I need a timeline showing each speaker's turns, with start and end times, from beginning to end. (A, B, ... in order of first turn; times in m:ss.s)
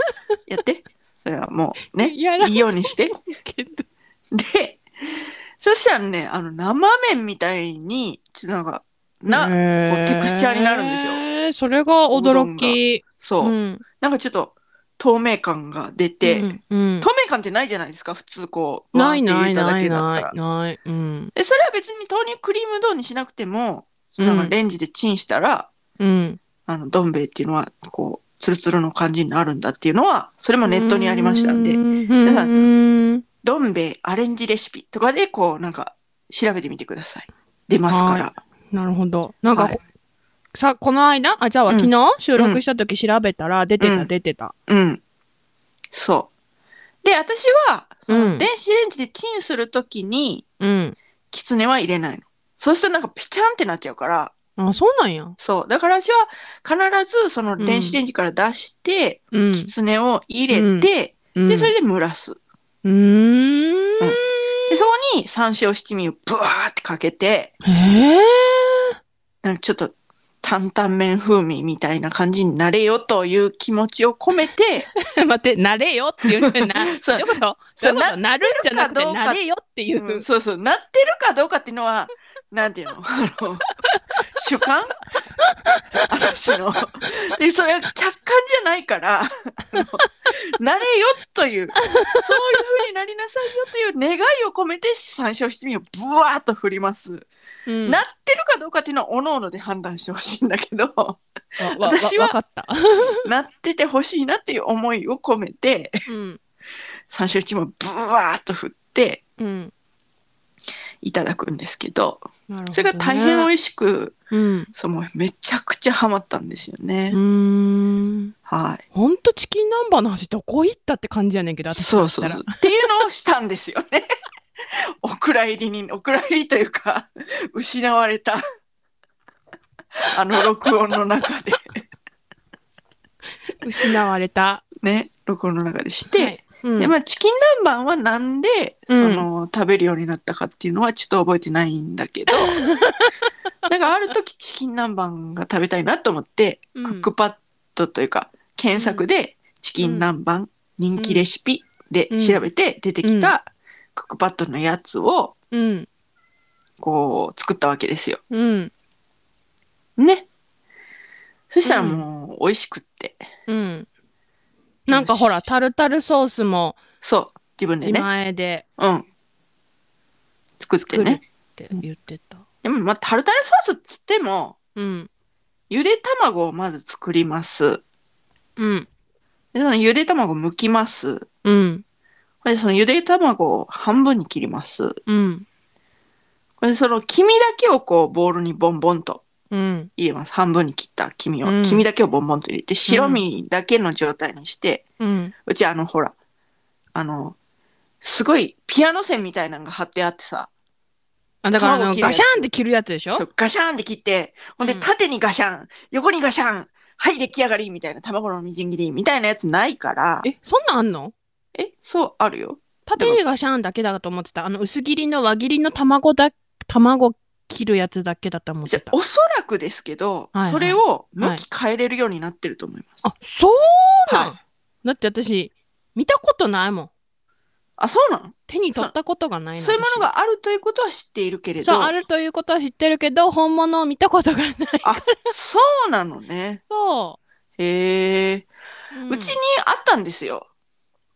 0:00.5-0:03.2 A
0:01.9-0:03.8 B
0:04.3-0:11.2 A
0:09.3-0:13.8 B
0:12.1-0:20.3 A
0:16.2-0:17.1 B
0:18.9-0:21.3 B
0:21.4-0:25.7 A
0:24.2-0:24.5 B
0:26.0-0:26.4 B
0:26.7-0:32.5 A
0:30.6-0:33.2 B
0:33.4-0:38.4 A
0:37.9-0:39.8 B
0:39.5-0:39.8 A
0:40.5-0:44.5 B
0:41.7-0:42.6 A
0:43.8-0:44.1 A
0:44.7-0:45.0 A
0:45.9-0:46.3 A
0:47.0-0:50.4 A
0:48.1-0:48.5 B
0:50.6-0:51.0 B
0:51.3-0:54.3 A
0:54.6-0:55.4 B
0:55.4-1:02.4 A
0:57.6-0:58.0 B
0:59.3-0:59.7 B
1:00.5-1:01.7 B
1:02.8-1:04.8 B
1:04.0-1:07.5 A
1:07.6-1:08.9 B
1:09.4-1:14.9 A
1:15.0-1:20.2 B
1:16.6-1:19.4 A
1:20.0-1:23.6 A
1:24.3-1:25.1 A
1:25.7-1:26.1 B
1:26.1-1:37.3 A
1:31.8-1:32.4 B
1:37.7-1:38.0 B
1:37.9-1:41.2 A
1:41.6-1:43.3 B
1:41.8-1:42.4 A
1:43.0-1:46.0 A
1:46.1-1:46.4 B
1:47.1-1:49.2 A
1:49.4-1:49.7 B
1:51.0-1:54.2 A
1:52.5-1:53.5 B
1:54.3-1:54.7 B
1:54.7-1:57.2 A
1:57.1-1:58.3 B
1:58.5-1:58.8 A
1:58.9-2:02.5 B
2:01.7-2:04.1 A
2:05.0-2:08.4 A
2:10.1-2:11.8 A
2:13.6-2:14.6 B
2:14.8-2:22.5 A
2:16.1-2:16.9 B
2:18.9-2:19.3 B
2:22.4-2:23.1 B
2:23.7-2:35.3 A
2:26.8-2:27.1 B
2:28.7-2:29.1 B
2:29.8-2:30.1 B
2:30.9-2:31.2 B
2:32.1-2:32.4 B
2:33.0-2:33.3 B
2:35.5-2:35.9 B
2:36.8-2:38.2 A
2:38.3-2:38.7 B
2:40.0-2:40.3 A
2:41.5-2:43.2 A
2:41.6-2:42.0 B
2:43.5-2:43.9 B
2:44.9-2:46.8 B
2:44.9-2:45.5 A
2:47.0-2:48.1 A
2:47.8-2:48.6 B
2:48.8-2:49.0 A
2:50.6-2:51.2 A
2:50.9-2:52.4 B
2:52.6-2:54.6 A
2:54.8-2:55.1 B
2:55.7-2:57.8 A
2:58.6-2:58.9 B
2:59.5-3:01.3 A
3:01.4-3:01.8 B
3:02.4-3:05.0 A
3:05.1-3:05.4 B
3:06.6-3:09.2 A
3:09.5-3:09.9 B
3:10.0-3:14.8 A
3:11.4-3:11.8 B
3:12.9-3:13.2 B
3:15.0-3:15.3 B
3:15.5-3:16.1 A
3:17.0-3:17.4 A
3:18.0-3:20.5 A
3:21.4-3:23.2 B
3:21.6-3:22.5 A
3:23.1-3:30.3 A
3:24.6-3:24.9 B
3:30.2-3:31.1 B
3:31.6-3:33.2 A
3:32.9-3:38.9 B
3:38.7-3:43.1 A
3:40.3-3:41.4 B
3:43.0-3:46.9 B
3:44.1-3:44.3 A
3:47.8-3:48.9 A
3:48.5-3:50.1 B
3:49.6-3:51.9 A
3:51.6-3:55.3 B
3:54.8-3:56.6 A
3:56.7-3:57.2 B
3:57.6-3:58.5 A
3:58.9-3:59.4 B
3:59.1-4:00.5 A